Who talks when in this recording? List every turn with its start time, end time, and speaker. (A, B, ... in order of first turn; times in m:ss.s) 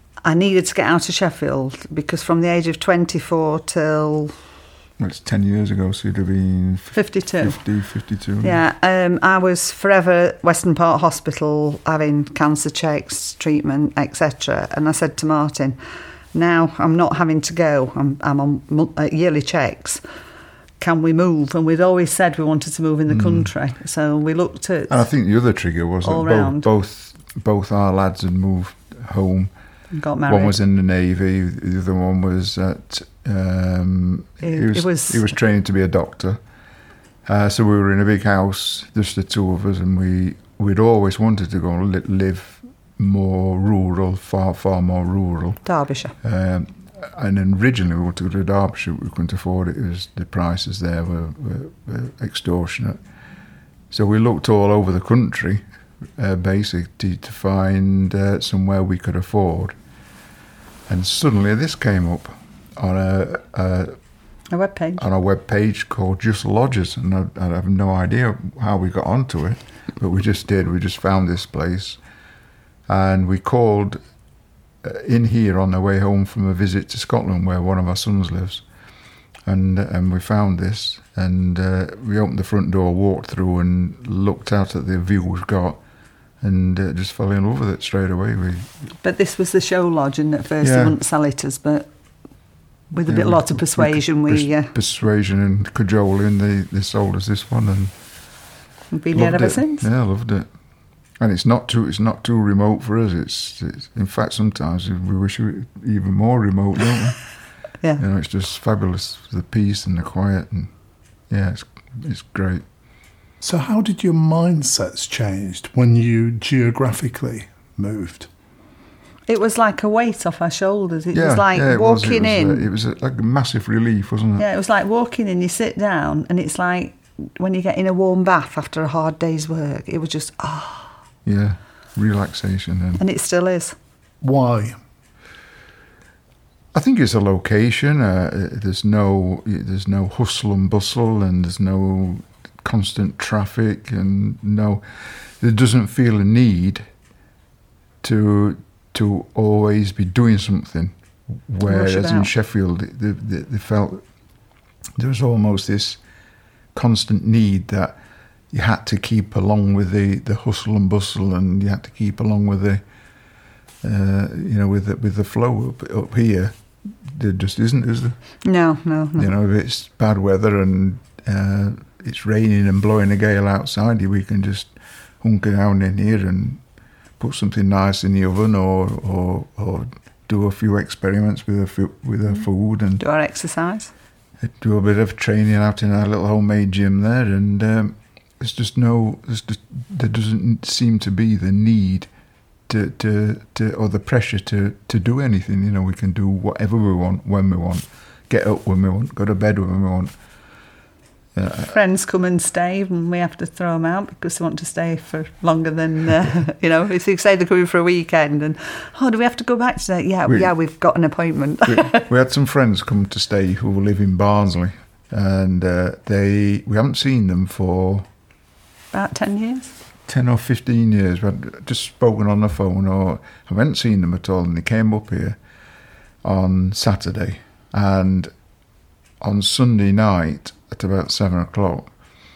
0:00.2-0:04.3 A
0:05.0-0:08.6 B
0:06.9-0:07.6 A
0:08.4-0:15.8 A
0:16.3-0:20.0 A
0:20.8-0:24.9 A
0:23.1-0:23.5 B
0:24.9-0:29.5 B
0:26.0-0:26.7 A
0:29.9-0:30.6 A
0:30.3-0:36.4 B
0:34.4-0:35.3 A
0:37.2-0:45.6 B
0:45.6-0:46.1 A
0:46.2-0:53.0 B
0:53.9-0:55.6 B
0:56.2-0:59.7 B
1:00.9-1:04.0 B
1:04.5-1:05.0 A
1:05.0-1:12.0 B
1:12.9-1:14.0 B
1:14.8-1:18.6 B
1:19.4-1:25.8 B
1:26.4-1:28.7 B
1:29.0-1:31.9 A
1:30.6-1:31.0 B
1:32.9-1:34.7 A
1:33.0-1:38.0 B
1:38.9-1:39.8 A
1:39.1-1:40.5 B
1:41.2-1:47.2 B
1:48.0-1:50.7 B
1:51.3-1:52.6 B
1:53.4-1:58.3 C
1:59.3-2:02.7 A
2:01.1-2:04.4 B
2:04.4-2:10.9 A
2:11.2-2:13.0 B
2:13.0-2:13.8 A
2:14.2-2:14.8 C
2:16.7-2:26.9 B
2:28.0-2:34.0 B
2:31.6-2:32.3 A
2:35.0-2:36.0 B
2:36.7-2:38.0 B
2:38.5-2:42.8 B
2:43.8-2:48.2 B
2:48.4-2:49.3 A
2:49.2-2:56.6 B
2:57.2-3:03.0 B
3:03.0-3:03.9 A
3:04.4-3:12.1 B
3:12.7-3:20.1 B
3:21.3-3:21.7 B
3:21.6-3:32.0 A
3:30.2-3:30.5 B
3:31.7-3:38.1 B
3:38.9-3:39.7 A
3:40.1-3:45.4 B
3:46.2-3:48.3 B
3:49.2-3:51.9 B